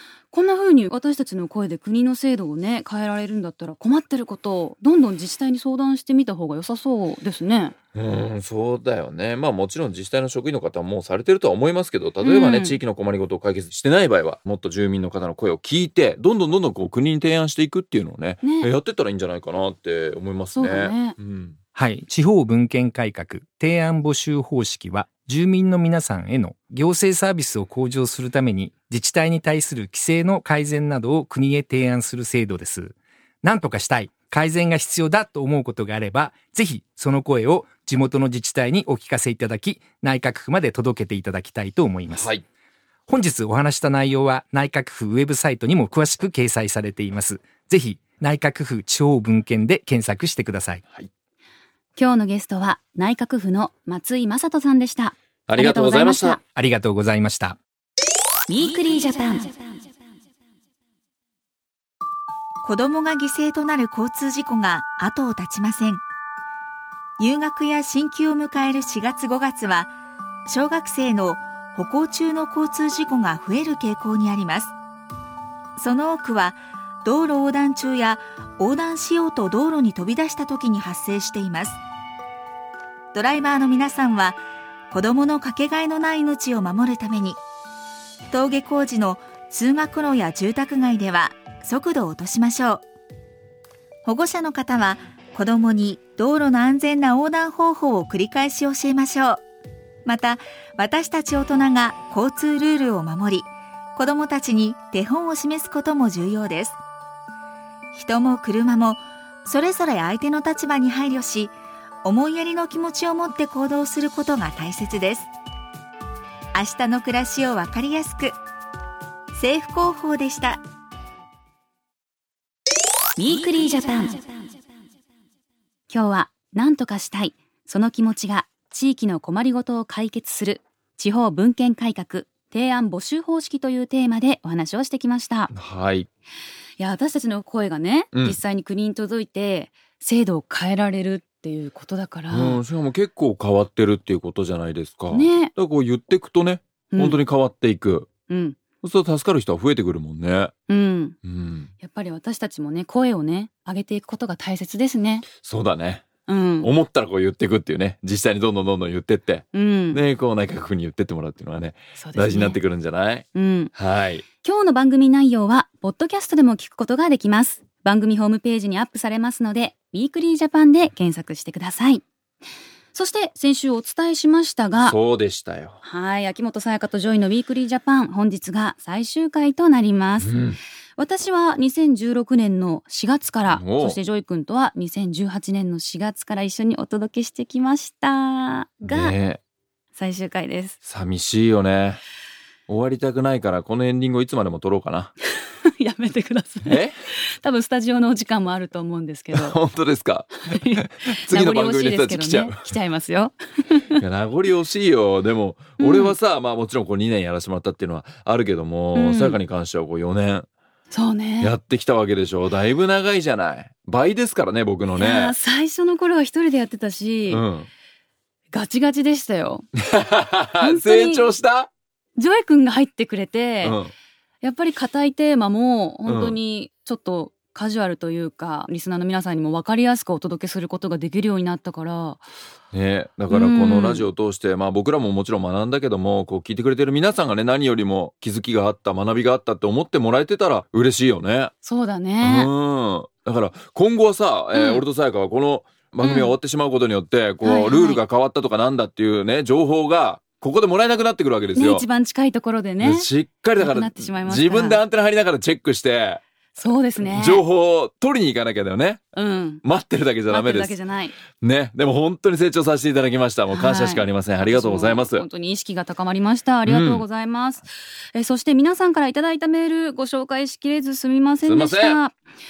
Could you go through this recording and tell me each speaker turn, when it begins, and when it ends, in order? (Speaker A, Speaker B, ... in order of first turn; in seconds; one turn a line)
Speaker A: 0.3-7.8
Speaker B: 8.0-21.6
Speaker A: 12.2-12.8
Speaker A: 18.4-18.7
Speaker A: 20.6-21.2
Speaker C: 21.8-42.3
Speaker B: 42.1-42.4
Speaker C: 43.1-50.8
Speaker A: 52.0-56.4
Speaker B: 55.5-56.4
Speaker C: 56.5-57.6
Speaker A: 58.5-59.5
Speaker D: 62.6-66.0
Speaker D: 67.2-69.9
Speaker D: 70.5-74.7
Speaker D: 75.8-81.8
Speaker D: 83.1-84.4
Speaker D: 84.9-87.4
Speaker D: 88.3-92.8
Speaker D: 94.1-99.4
Speaker D: 100.0-106.8
Speaker D: 107.9-115.3
Speaker D: 116.5-118.4
Speaker D: 119.3-120.6
Speaker A: 123.2-124.2
Speaker A: 125.9-135.5
Speaker B: 135.5-136.1
Speaker A: 136.8-142.6
Speaker B: 138.1-138.4
Speaker B: 142.3-148.1
Speaker A: 145.1-145.5
Speaker A: 146.9-147.2
Speaker A: 148.3-148.6
Speaker B: 148.8-150.5
Speaker A: 150.7-151.2
Speaker B: 151.2-151.7
Speaker A: 151.8-155.3
Speaker B: 155.4-156.1
Speaker A: 156.3-156.7
Speaker B: 156.6-164.2
Speaker A: 159.5-160.0
Speaker A: 162.0-162.6
Speaker A: 163.3-163.7
Speaker A: 164.4-172.0
Speaker A: 172.9-175.0
Speaker B: 174.8-175.8
Speaker A: 175.8-180.3
Speaker B: 180.2-180.6
Speaker A: 181.0-189.1
Speaker B: 183.5-184.0
Speaker B: 188.8-189.4
Speaker A: 189.9-190.8
Speaker B: 190.8-192.0
Speaker B: 192.7-195.1
Speaker A: 195.7-199.6
Speaker B: 196.6-197.0
Speaker B: 199.3-202.6
Speaker A: 200.5-204.0
Speaker B: 204.0-210.5
Speaker A: 205.8-206.2
Speaker A: 208.9-209.4
Speaker A: 210.9-211.5
Speaker B: 211.4-215.3
Speaker A: 215.0-217.4
Speaker B: 217.3-217.7
Speaker A: 218.5-219.7
Speaker B: 219.8-221.7
Speaker A: 220.6-221.3
Speaker A: 222.2-223.8
Speaker B: 223.6-223.9
Speaker A: 224.4-232.2
Speaker B: 226.1-226.4
Speaker B: 232.7-241.5
Speaker A: 233.3-234.1
Speaker A: 241.6-242.5
Speaker B: 242.2-251.8
Speaker A: 244.5-244.8
Speaker A: 246.0-246.3
Speaker A: 247.4-248.0
Speaker A: 251.6-254.8
Speaker B: 252.8-256.2
Speaker A: 256.6-257.4
Speaker B: 257.0-259.0
Speaker A: 259.1-259.6
Speaker B: 259.6-260.8
Speaker A: 260.3-261.2
Speaker B: 261.3-265.2
Speaker A: 263.5-272.2
Speaker B: 266.7-267.1
Speaker B: 271.4-272.0